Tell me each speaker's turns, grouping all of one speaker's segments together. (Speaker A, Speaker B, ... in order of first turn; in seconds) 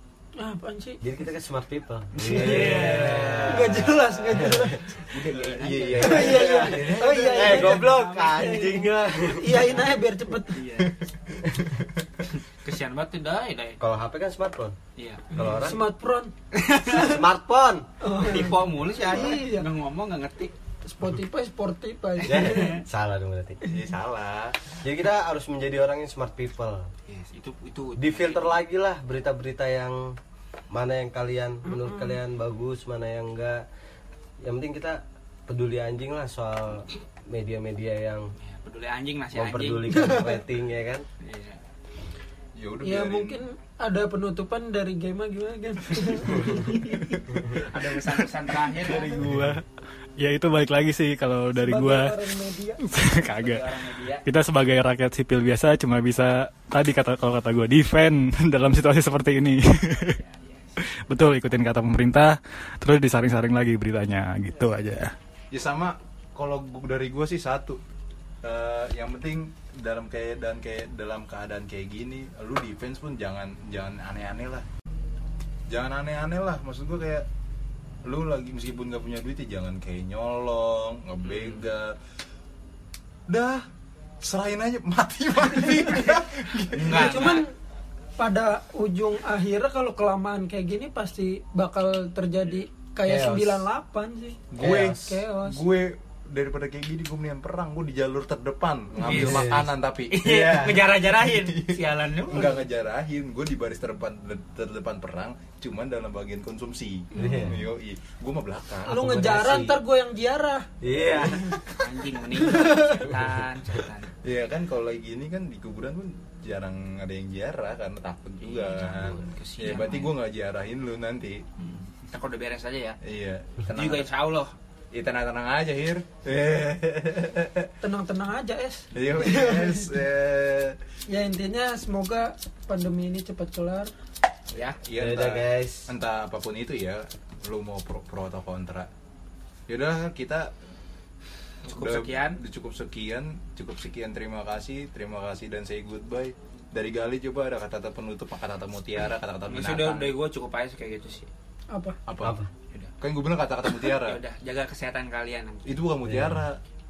Speaker A: 0.4-1.0, 2.2-5.2, 6.0-10.7, 15.4-16.3, 18.0-19.7, 20.9-22.8, 40.0-40.3, 42.8-47.2, 48.8-49.4, 51.6-52.9, 86.9-87.5, 88.2-95.6, 107.2-107.5, 108.9-111.5, 112.4-113.1, 127.8-129.9, 131.1-133.9, 151.7-152.0
Speaker B: 1.0-4.8, 5.8-9.8, 13.8-14.8, 15.3-15.8, 16.8-17.9, 22.2-23.8, 24.8-26.9, 28.0-30.2, 30.7-33.6, 34.4-38.3, 39.3-41.0, 94.6-95.1, 99.0-99.7, 107.2-107.6, 108.9-109.8, 110.8-111.6, 134.9-135.9, 152.2-152.5, 156.1-156.5
Speaker C: 2.2-4.5, 5.3-7.8, 10.8-12.2, 23.7-24.7, 42.6-43.4, 47.1-47.7, 65.5-67.8, 68.4-74.7, 75.7-77.3, 78.0-82.0, 83.3-83.7, 84.2-87.4, 93.1-93.7, 94.5-109.2, 114.2-121.5, 123.0-124.1, 124.9-127.7, 128.9-130.8, 134.8-138.9, 139.7-140.5, 141.7-150.1, 152.1-152.4, 153.0-154.2, 155.7-156.6
Speaker D: 2.7-3.3, 5.0-8.8, 10.5-11.0, 12.4-13.8, 15.0-15.4, 16.5-17.2, 18.1-20.6, 22.2-22.8, 27.1-28.6, 38.4-40.2, 41.2-41.6, 47.5-49.3, 53.0-54.3, 59.9-60.8, 81.2-81.7, 86.7-87.5, 99.0-102.6, 111.7-114.1, 118.4-120.2, 121.6-123.0, 123.7-124.5, 134.5-134.8, 141.7-142.4, 149.5-151.3, 153.7-155.8
Speaker E: 48.9-49.6, 50.2-52.2, 52.8-60.2, 60.8-65.2